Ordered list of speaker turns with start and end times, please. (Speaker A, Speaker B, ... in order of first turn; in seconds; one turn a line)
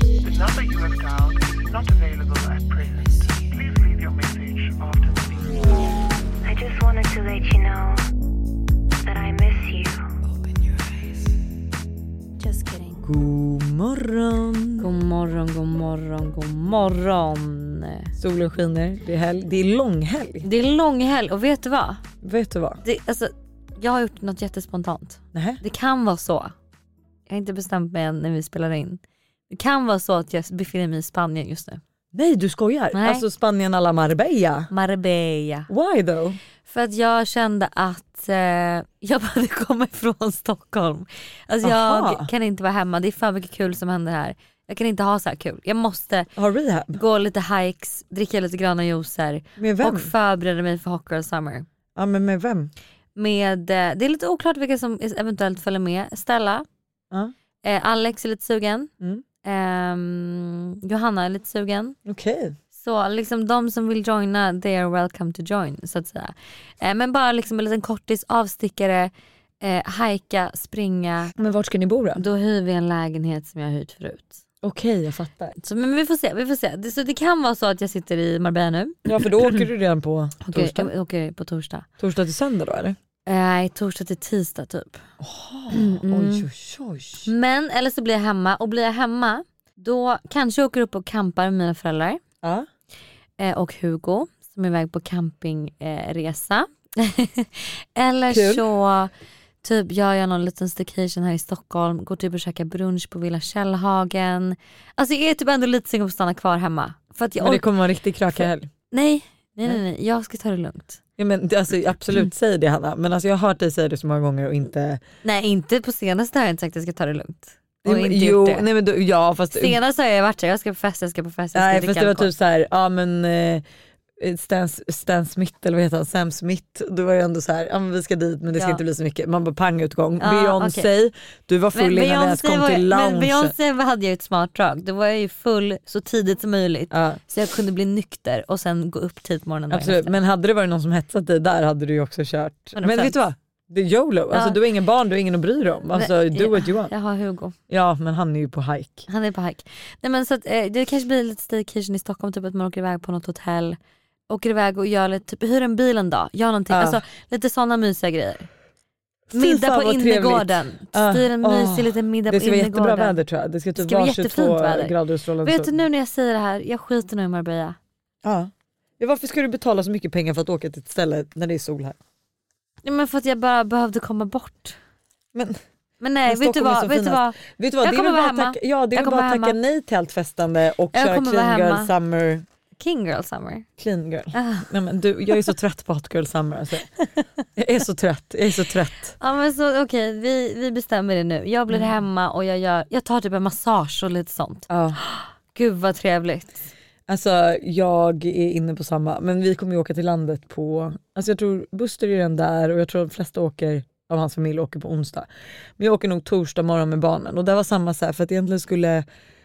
Speaker A: 0.2-5.6
Speaker B: 6.4-8.0
Speaker B: 9.0-10.1
Speaker B: 12.5-12.9
Speaker C: 13.0-14.9
Speaker D: 14.8-18.1
Speaker C: 18.2-20.5
Speaker D: 20.4-22.0
Speaker C: 22.2-22.8
Speaker D: 22.8-26.5
Speaker C: 25.3-25.6
Speaker D: 27.3-31.8
Speaker C: 32.1-34.7
Speaker D: 32.9-33.2
Speaker D: 34.7-35.7
Speaker C: 35.7-36.4
Speaker D: 36.7-46.3
Speaker C: 41.6-42.3
Speaker C: 46.4-47.0
Speaker D: 46.9-51.7
Speaker C: 49.6-50.1
Speaker C: 52.0-52.7
Speaker D: 53.1-56.6
Speaker D: 57.6-58.9
Speaker D: 59.4-62.0
Speaker C: 62.1-62.5
Speaker D: 62.7-71.3
Speaker C: 71.4-72.2
Speaker D: 72.2-74.4
Speaker C: 74.6-75.6
Speaker D: 75.6-79.0
Speaker C: 79.0-80.9
Speaker D: 80.5-81.9
Speaker C: 82.0-83.0
Speaker D: 83.3-85.0
Speaker C: 85.2-87.3
Speaker D: 85.7-86.5
Speaker D: 87.3-92.2
Speaker C: 92.4-92.7
Speaker D: 93.4-99.1
Speaker C: 98.3-98.6
Speaker D: 99.6-107.7
Speaker C: 107.4-108.7
Speaker D: 108.3-111.0
Speaker C: 111.2-115.0
Speaker D: 115.2-118.7
Speaker C: 117.8-119.8
Speaker D: 119.5-122.3
Speaker C: 121.5-123.6
Speaker C: 124.2-133.6
Speaker D: 128.5-128.8
Speaker D: 130.2-130.9
Speaker D: 131.7-140.2
Speaker C: 136.9-137.2
Speaker C: 139.7-146.9
Speaker D: 142.8-143.1
Speaker D: 144.3-144.6
Speaker D: 145.9-147.6
Speaker C: 147.7-149.1
Speaker D: 149.1-153.8
Speaker D: 154.3-158.5
Speaker C: 156.7-157.0
Speaker C: 159.3-165.8
Speaker D: 159.3-163.2
Speaker D: 163.8-167.8
Speaker C: 168.2-172.0
Speaker D: 172.8-174.8
Speaker D: 176.0-179.6
Speaker C: 176.3-182.4
Speaker D: 180.9-181.9
Speaker D: 182.8-183.7
Speaker C: 183.8-186.9
Speaker D: 184.3-184.7
Speaker C: 187.6-189.2
Speaker D: 189.2-196.7
Speaker C: 194.7-195.0
Speaker C: 197.1-209.1